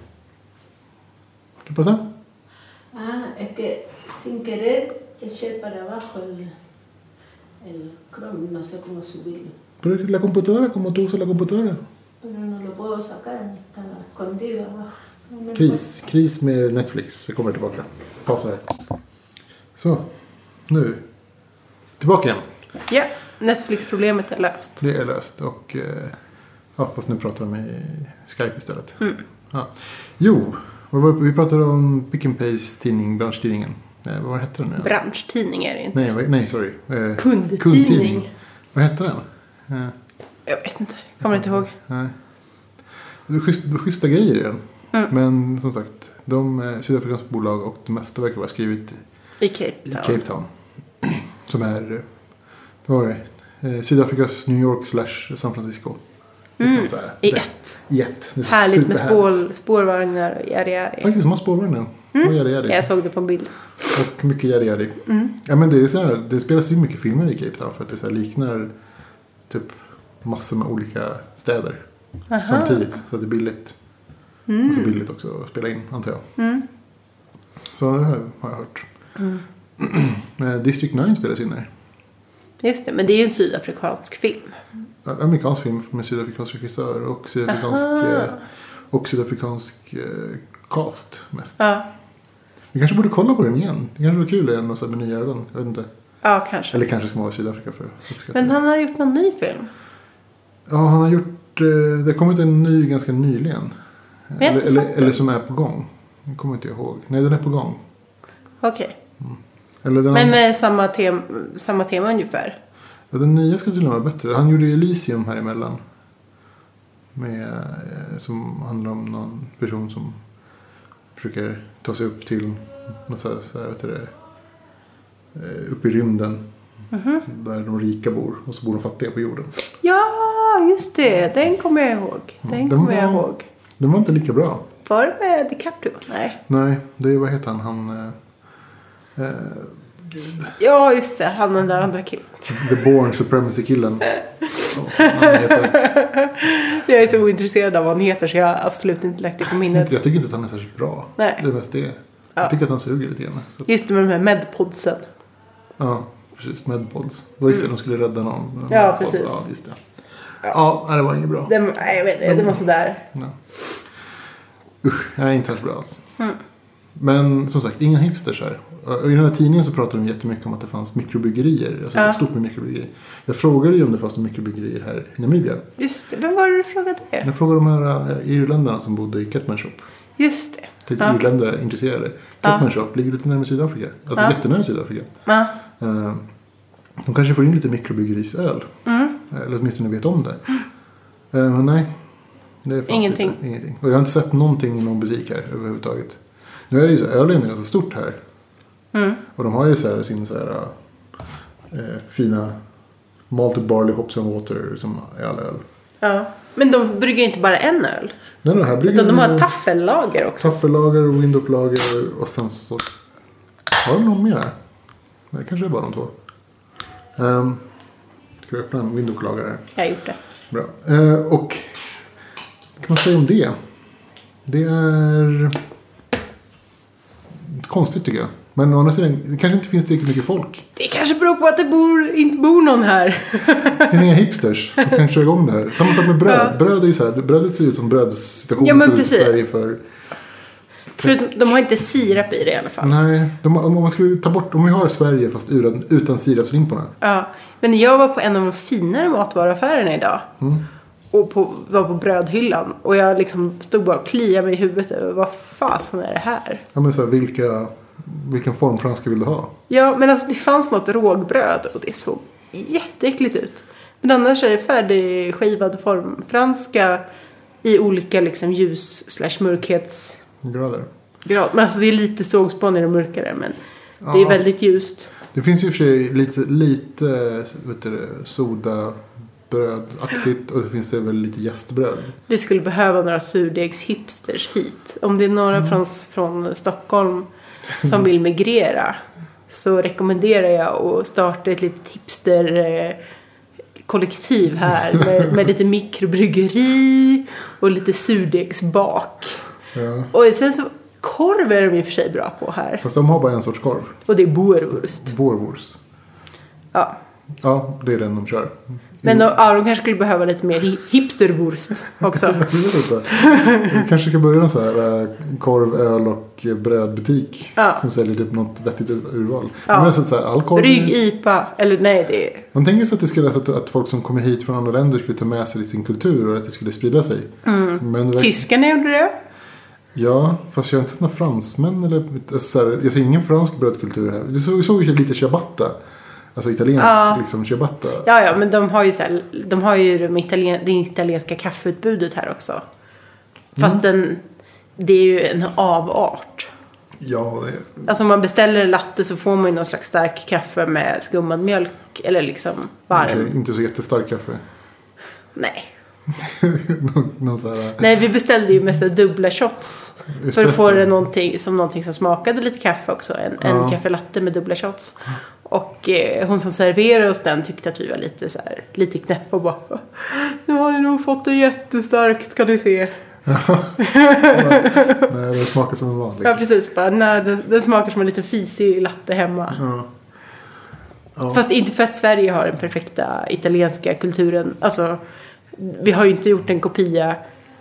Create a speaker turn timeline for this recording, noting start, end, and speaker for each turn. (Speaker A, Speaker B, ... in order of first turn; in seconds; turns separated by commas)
Speaker A: 1.6-2.0, Speaker B: 2.9-6.5, Speaker B: 7.6-9.5, Speaker A: 9.8-11.8, Speaker B: 12.2-15.8, Speaker A: 15.5-18.7, Speaker A: 19.8-21.0, Speaker A: 22.0-22.4, Speaker C: 22.9-24.8, Speaker A: 24.8-26.1, Speaker A: 26.8-34.9, Speaker C: 34.8-36.0, Speaker A: 35.9-39.9, Speaker C: 37.2-38.3, Speaker C: 40.5-41.7, Speaker A: 41.2-42.1, Speaker A: 43.3-49.0, Speaker C: 49.4-50.2, Speaker A: 49.9-50.5, Speaker A: 51.0-52.1, Speaker A: 52.8-56.0, Speaker C: 56.6-57.8, Speaker A: 56.6-59.4, Speaker C: 58.4-61.1, Speaker A: 61.0-62.9, Speaker C: 62.1-63.9, Speaker A: 63.9-68.7, Speaker C: 65.1-65.3, Speaker A: 69.5-71.8, Speaker C: 72.3-72.8, Speaker A: 72.4-73.8, Speaker C: 74.5-74.9, Speaker A: 74.7-76.2, Speaker C: 76.4-76.6, Speaker A: 77.7-78.9, Speaker C: 79.2-79.4, Speaker A: 79.8-81.7, Speaker C: 82.6-84.5, Speaker A: 85.0-91.6, Speaker C: 87.5-88.4, Speaker C: 91.6-91.8, Speaker A: 92.7-95.9, Speaker C: 96.2-96.8, Speaker A: 96.7-98.6, Speaker C: 98.3-99.7, Speaker A: 100.7-103.7, Speaker A: 104.3-107.8, Speaker C: 104.4-105.2, Speaker C: 108.6-109.0, Speaker A: 109.2-110.4, Speaker C: 110.1-112.5, Speaker A: 113.1-115.8, Speaker A: 117.1-120.2, Speaker A: 121.2-124.1, Speaker A: 125.3-126.4, Speaker C: 126.9-127.2, Speaker A: 127.2-129.5, Speaker C: 129.8-133.4, Speaker A: 132.4-133.3, Speaker A: 133.8-134.7, Speaker C: 134.8-136.4, Speaker A: 136.5-138.2, Speaker A: 139.2-140.5, Speaker C: 140.6-142.6, Speaker A: 142.5-145.8, Speaker C: 144.6-150.0, Speaker A: 149.5-153.7, Speaker C: 153.7-155.1, Speaker A: 155.8-159.8, Speaker C: 158.7-159.4, Speaker A: 160.4-161.5, Speaker C: 161.4-163.0, Speaker A: 162.2-162.6, Speaker A: 164.8-166.0, Speaker A: 166.9-175.6, Speaker C: 175.8-177.3, Speaker A: 177.2-179.8, Speaker C: 180.2-181.2, Speaker A: 180.8-185.1, Speaker C: 185.2-185.5, Speaker A: 185.8-186.2, Speaker A: 187.0-190.4, Speaker C: 188.8-189.1, Speaker A: 191.3-192.0, Speaker A: 192.6-198.2, Speaker C: 192.9-193.3, Speaker C: 198.9-199.2, Speaker A: 199.3-200.7, Speaker A: 201.7-202.6, Speaker A: 203.3-205.6, Speaker C: 206.0-208.1, Speaker A: 208.4-209.5, Speaker C: 208.8-210.6, Speaker A: 210.4-212.9, Speaker A: 213.8-214.5, Speaker A: 215.3-216.1, Speaker A: 217.2-217.6, Speaker A: 218.4-219.7, Speaker C: 219.8-220.2, Speaker A: 220.5-221.9, Speaker A: 222.8-223.6, Speaker A: 224.4-225.6, Speaker A: 227.4-230.7, Speaker C: 230.8-234.0, Speaker A: 233.8-239.8, Speaker C: 235.9-236.5, Speaker C: 238.6-239.3, Speaker C: 241.0-242.9, Speaker A: 242.8-246.9, Speaker C: 247.0-250.3, Speaker C: 251.1-256.6, Speaker A: 256.7-259.5, Speaker C: 259.7-267.0, Speaker C: 267.6-270.2, Speaker A: 270.4-270.9, Speaker C: 271.2-273.6, Speaker A: 274.0-274.4, Speaker C: 274.1-275.1, Speaker A: 275.3-282.1, Speaker C: 282.3-293.0, Speaker C: 293.8-299.4, Speaker A: 299.7-300.1, Speaker C: 300.1-302.8, Speaker A: 302.8-304.0, Speaker C: 304.1-305.1, Speaker A: 305.0-305.8, Speaker A: 307.4-309.3, Speaker C: 309.0-312.6, Speaker A: 312.2-320.9, Speaker C: 313.1-313.7, Speaker C: 317.6-317.8, Speaker C: 319.7-319.9, Speaker C: 320.5-322.4, Speaker A: 322.5-328.5, Speaker C: 327.4-329.1, Speaker A: 329.9-335.8, Speaker A: 336.3-338.1, Speaker C: 336.8-337.2, Speaker C: 338.0-342.6, Speaker A: 343.6-343.8, Speaker C: 343.6-344.2, Speaker C: 344.8-346.5, Speaker A: 347.0-347.9, Speaker C: 347.9-353.3, Speaker A: 352.9-354.4, Speaker C: 355.4-355.7, Speaker A: 356.1-357.8, Speaker C: 357.8-372.9, Speaker A: 360.1-360.9, Speaker A: 363.4-363.8, Speaker A: 373.2-376.4, Speaker C: 373.8-375.1, Speaker C: 376.2-379.6, Speaker A: 379.5-379.9, Speaker A: 381.1-381.4, Speaker C: 381.3-385.0, Speaker C: 385.5-387.2